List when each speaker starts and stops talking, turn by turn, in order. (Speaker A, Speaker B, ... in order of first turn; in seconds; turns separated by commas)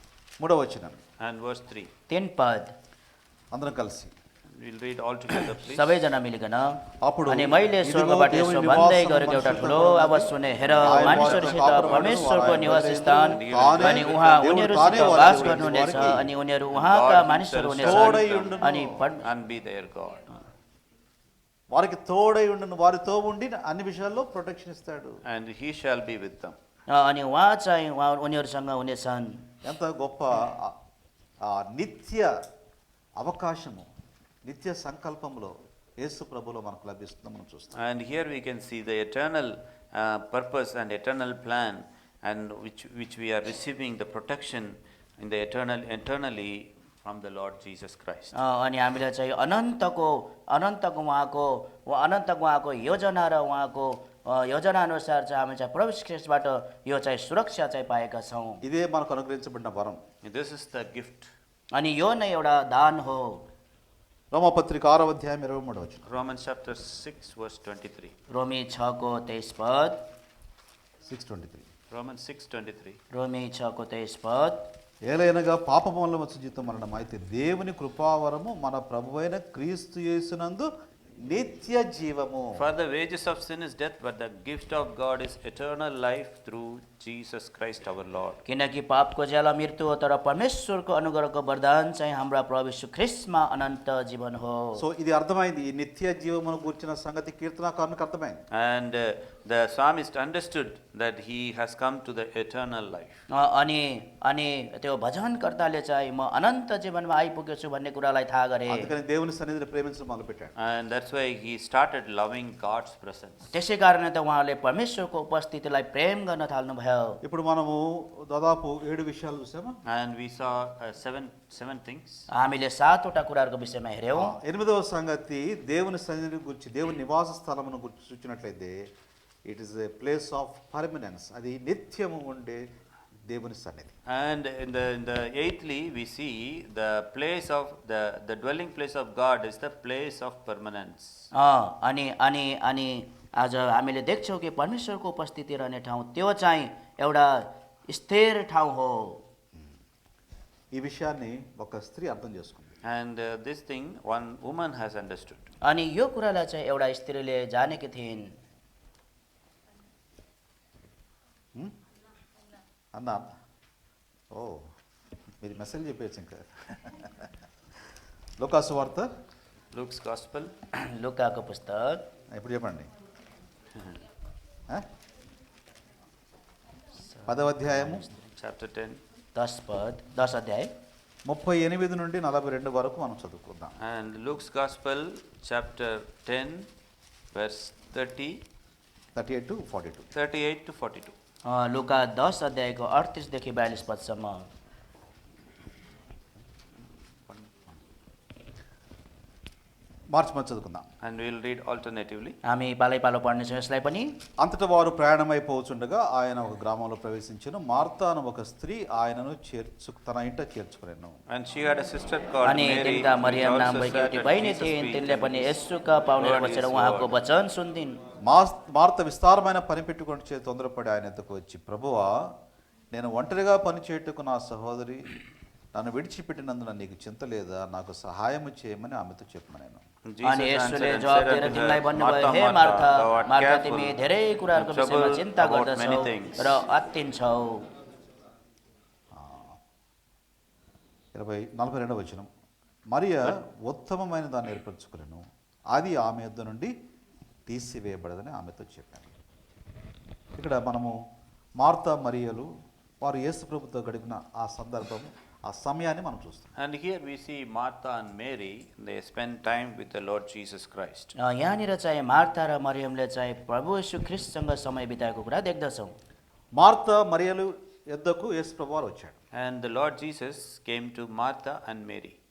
Speaker A: 0.4-1.0, Speaker B: 1.2-1.9, Speaker C: 2.1-2.7, Speaker A: 3.5-4.1, Speaker B: 4.6-6.0, Speaker C: 5.5-6.8, Speaker A: 7.0-16.3, Speaker C: 7.3-19.2, Speaker B: 10.6-12.4, Speaker B: 13.2-14.3, Speaker B: 14.8-16.0, Speaker B: 16.7-18.6, Speaker A: 17.8-19.0, Speaker B: 19.2-20.3, Speaker A: 21.7-25.2, Speaker B: 25.3-26.6, Speaker C: 26.9-29.4, Speaker A: 29.6-30.8, Speaker A: 31.5-32.3, Speaker A: 33.2-33.9, Speaker A: 34.5-37.7, Speaker B: 37.7-48.3, Speaker C: 48.4-58.6, Speaker A: 58.6-60.0, Speaker B: 60.2-61.3, Speaker C: 61.7-63.4, Speaker A: 64.3-66.0, Speaker B: 66.1-68.1, Speaker C: 68.3-70.0, Speaker A: 71.0-71.7, Speaker B: 71.9-73.0, Speaker C: 73.1-74.6, Speaker A: 75.0-80.7, Speaker A: 81.2-82.6, Speaker B: 82.5-88.4, Speaker C: 88.5-94.8, Speaker A: 94.8-98.4, Speaker B: 98.5-103.2, Speaker C: 103.3-108.9, Speaker A: 108.7-110.5, Speaker B: 110.5-113.5, Speaker C: 113.5-117.2, Speaker A: 117.2-119.8, Speaker B: 119.8-122.3, Speaker C: 122.3-124.4, Speaker A: 124.1-128.9, Speaker A: 129.4-132.6, Speaker A: 133.2-133.9, Speaker B: 134.1-141.3, Speaker C: 141.3-149.2, Speaker A: 150.7-152.8, Speaker B: 152.8-155.5, Speaker C: 155.6-158.3, Speaker A: 162.9-163.3, Speaker A: 164.3-164.7, Speaker A: 165.4-167.3, Speaker A: 168.4-169.1, Speaker B: 169.7-170.5, Speaker C: 170.7-172.0, Speaker A: 172.3-172.9, Speaker A: 177.2-178.1, Speaker C: 177.7-178.0, Speaker B: 178.2-179.0, Speaker C: 179.3-180.7, Speaker A: 181.2-183.7, Speaker B: 183.8-186.7, Speaker B: 187.3-188.4, Speaker A: 189.2-190.1, Speaker B: 190.1-191.1, Speaker C: 191.5-194.4, Speaker A: 200.1-200.8, Speaker B: 201.0-202.4, Speaker C: 202.4-204.1, Speaker A: 204.4-211.2, Speaker B: 211.3-215.5, Speaker C: 212.4-218.0, Speaker B: 216.2-217.1, Speaker A: 218.2-222.3, Speaker A: 222.9-225.1, Speaker A: 225.7-229.8, Speaker B: 230.1-234.0, Speaker C: 230.2-237.6, Speaker B: 234.5-236.6, Speaker A: 239.1-239.6, Speaker A: 241.1-242.3, Speaker A: 242.9-246.7, Speaker A: 247.4-249.1, Speaker A: 250.3-250.9, Speaker A: 251.6-252.5, Speaker A: 253.0-256.5, Speaker B: 256.6-261.1, Speaker C: 261.2-265.9, Speaker A: 266.6-269.1, Speaker B: 269.3-272.1